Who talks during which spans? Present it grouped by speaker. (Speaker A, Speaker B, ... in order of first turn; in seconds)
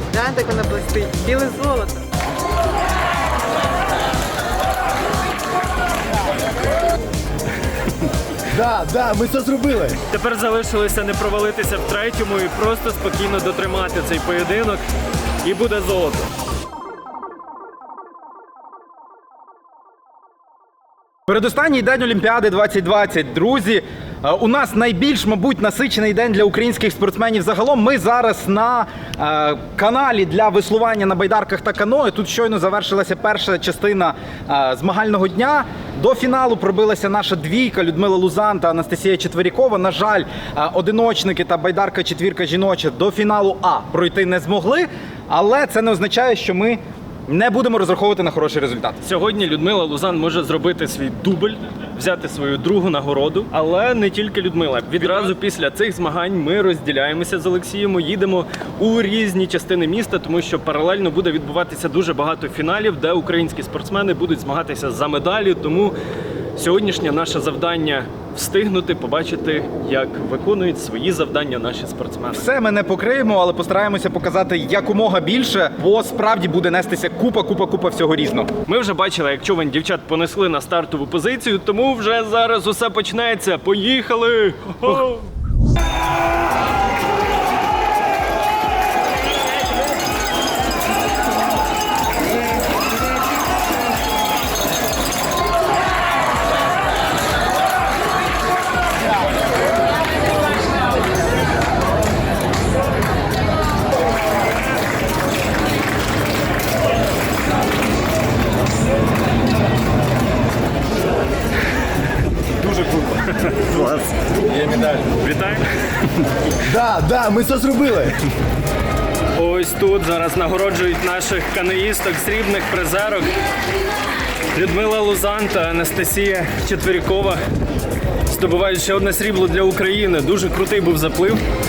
Speaker A: 0.1-2.1
Speaker B: 8.5-10.0, 116.7-118.2
Speaker C: 10.1-14.8, 15.4-16.2, 49.0-65.9, 66.6-72.5, 78.7-85.2, 112.7-115.7, 119.3-123.3, 124.5-127.4, 128.3-131.4
Speaker D: 21.3-49.0, 72.3-78.5